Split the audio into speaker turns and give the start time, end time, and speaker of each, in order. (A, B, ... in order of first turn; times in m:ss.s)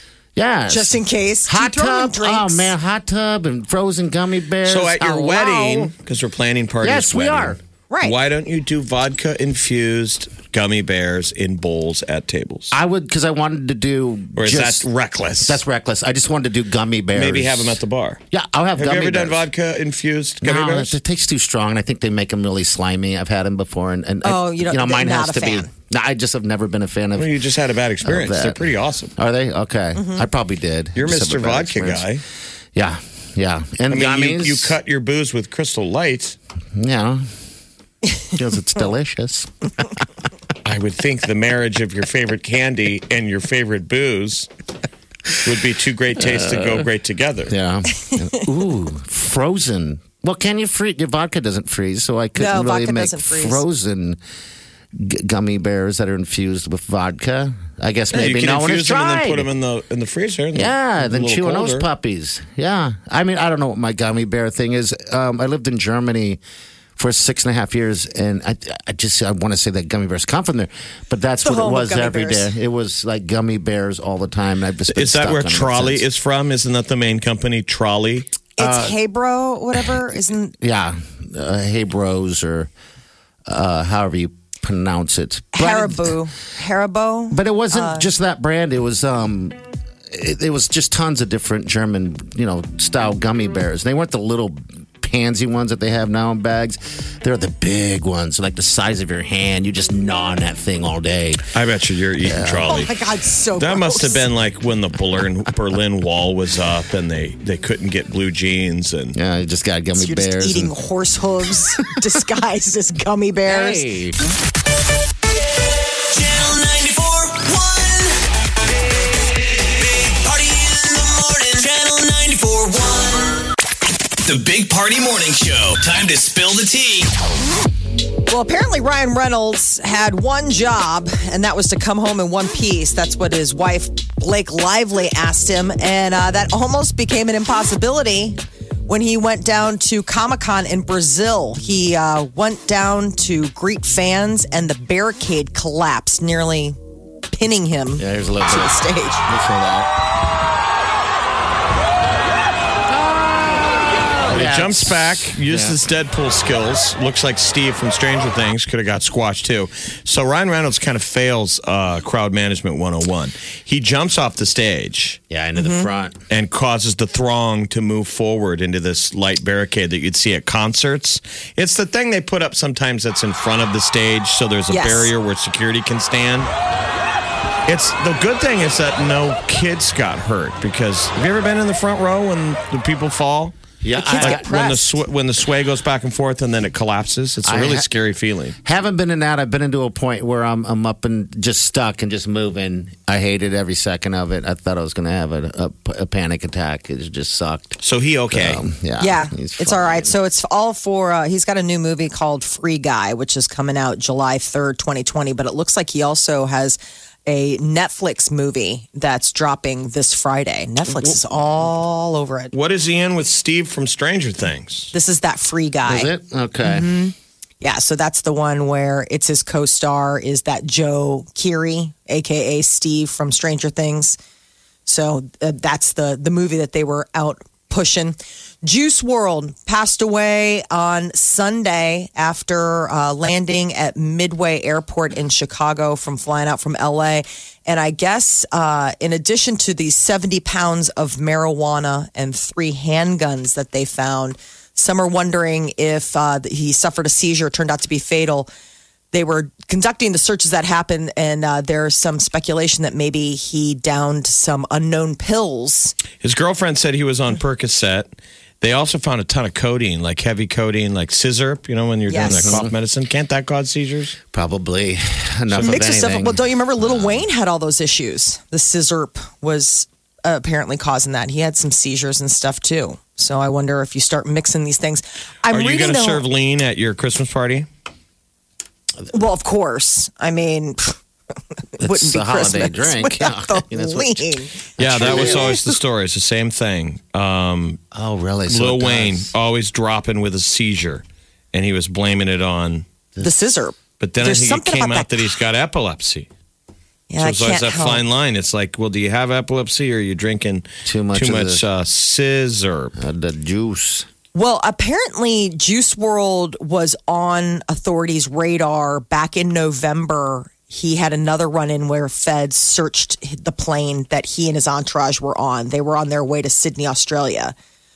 0:00.4-0:05.9 A
0:00.7-0:02.8 B
0:04.6-0:12.7 C
0:06.8-0:07.6 A
0:07.9-0:08.2 B
0:12.7-0:14.8 A
0:14.4-0:15.6 C
0:15.4-0:19.5 A
0:17.1-0:18.2 C
0:18.8-0:21.0 C
0:20.4-0:27.4 A
0:24.2-0:25.7 B
0:27.2-0:29.1 C
0:28.0-0:32.1 A
0:30.0-0:30.3 B
0:31.0-0:32.2 C
0:32.8-0:34.8 A
0:33.9-0:36.4 C
0:36.8-0:37.2 A
0:38.3-0:39.5 A
0:40.6-0:44.5 C
0:45.4-0:47.5 C
0:46.2-0:46.9 A
0:47.5-0:54.2 A
0:52.4-0:53.6 B
0:55.0-0:59.5 A
0:58.1-1:01.9 C
1:00.5-1:06.4 A
1:07.0-1:16.1 A
1:11.4-1:12.5 B
1:14.9-1:18.3 C
1:18.6-1:20.5 B
1:18.6-1:19.0 A
1:20.6-1:22.7 A
1:23.5-1:26.2 A
1:25.5-1:28.1 B
1:27.3-1:29.6 A
1:30.1-1:41.5 A
1:41.5-1:42.9 C
1:42.2-1:42.7 A
1:42.6-1:44.3 B
1:43.6-1:49.2 C
1:49.2-1:50.8 A
1:49.9-1:53.8 B
1:53.4-1:54.2 A
1:56.2-1:58.1 D
2:00.0-2:03.2 D
2:04.3-2:07.1 D
2:08.3-2:26.8 B
2:27.3-2:29.3 B
2:28.0-2:29.9 A
2:32.9-2:35.8 A
2:34.3-2:45.2 C
2:45.3-2:46.2 A
2:45.6-2:45.9 B
2:46.3-2:56.5 C
2:54.7-2:55.1 B
2:57.7-3:03.6 C
3:03.8-3:04.5 A
3:04.0-3:05.0 B
3:04.2-3:08.6 C
3:07.4-3:07.9 A
3:08.6-3:17.8 A
3:17.8-3:18.6 C
3:18.3-3:20.2 A
3:19.0-3:32.5 B
3:30.9-3:31.2 C
3:32.5-3:34.9 C
3:34.9-3:44.2 B
3:35.8-3:36.9 A
3:44.9-4:08.5 B
4:09.1-4:16.0 B
4:16.2-4:24.2 C
4:22.1-4:22.6 B
4:22.2-4:22.7 A
4:24.3-4:27.3 A
4:25.6-4:36.2 B
4:35.5-4:37.7 C
4:39.1-4:41.0 B
4:41.8-4:45.6 B
4:41.8-4:45.6 A
4:44.8-4:47.8 C
4:47.9-4:49.3 A
4:48.5-4:52.9 C
4:53.2-4:55.3 B
4:54.0-4:56.3 C
4:57.1-4:58.0 B
4:57.2-5:02.9 C
5:00.8-5:01.6 A
5:03.0-5:04.1 A
5:04.3-5:17.6 B